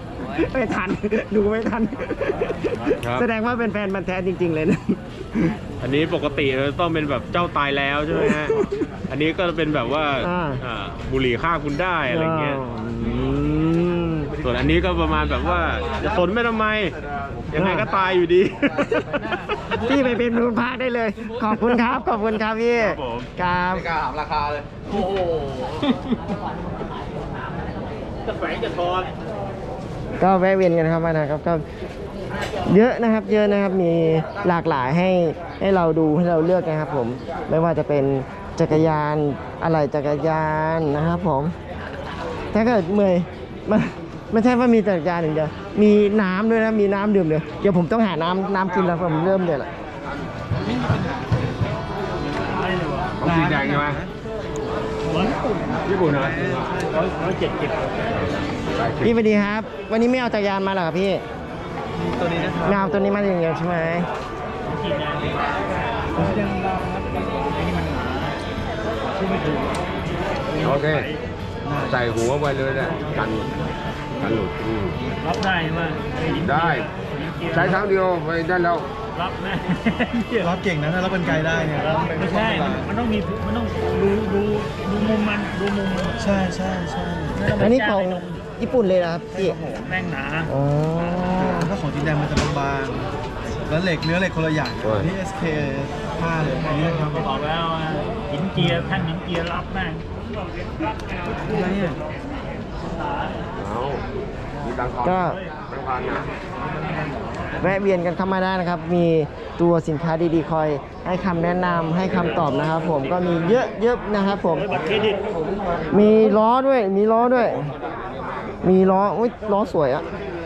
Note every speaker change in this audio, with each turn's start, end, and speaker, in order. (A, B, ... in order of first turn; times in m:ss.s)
0:00.2-0:05.6 A
0:02.9-0:03.3 B
0:05.8-0:12.6 B
0:08.1-0:08.8 A
0:10.2-0:10.6 A
0:12.1-0:14.3 A
0:14.4-0:17.0 B
0:17.5-0:19.0 B
0:17.5-0:17.9 A
0:18.8-0:23.9 A
0:22.8-0:23.3 B
0:24.1-0:24.6 C
0:28.4-0:29.1 B
0:28.5-0:28.8 D
0:30.2-0:31.6 A
0:32.6-0:41.5 A
0:42.5-0:49.7 A
0:52.4-0:53.1 D
0:53.2-0:54.0 C
0:53.2-0:54.1 E
0:55.1-0:55.9 D
0:55.8-0:56.7 C
0:56.0-0:56.9 E
0:56.9-0:58.1 D
0:58.7-0:59.2 C
0:59.0-1:01.2 A
1:02.0-1:03.1 E
1:02.6-1:04.1 A
1:04.6-1:05.5 D
1:06.1-1:08.4 D
1:06.2-1:07.2 E
1:06.2-1:06.4 C
1:09.1-1:09.8 D
1:10.5-1:11.2 D
1:10.6-1:11.1 C
1:11.6-1:12.2 E
1:11.8-1:13.5 C
1:14.2-1:15.0 C
1:15.2-1:17.9 D
1:16.4-1:16.9 C
1:17.5-1:18.9 C
1:19.1-1:20.5 D
1:20.4-1:22.9 E
1:21.7-1:26.2 D
1:26.2-1:27.6 E
1:27.3-1:28.4 D
1:27.6-1:29.6 A
1:29.3-1:30.5 D
1:30.5-1:31.7 A
1:31.3-1:33.1 E
1:33.6-1:37.3 E
1:34.8-1:35.1 C
1:36.6-1:41.9 D
1:38.6-1:39.0 E
1:41.4-1:42.0 E
1:42.9-1:43.4 D
1:43.6-1:44.0 C
1:44.6-1:46.3 C
1:45.0-1:45.4 A
1:47.6-1:54.8 A
1:54.5-1:55.2 D
1:55.9-1:57.7 A
1:58.6-2:00.0 A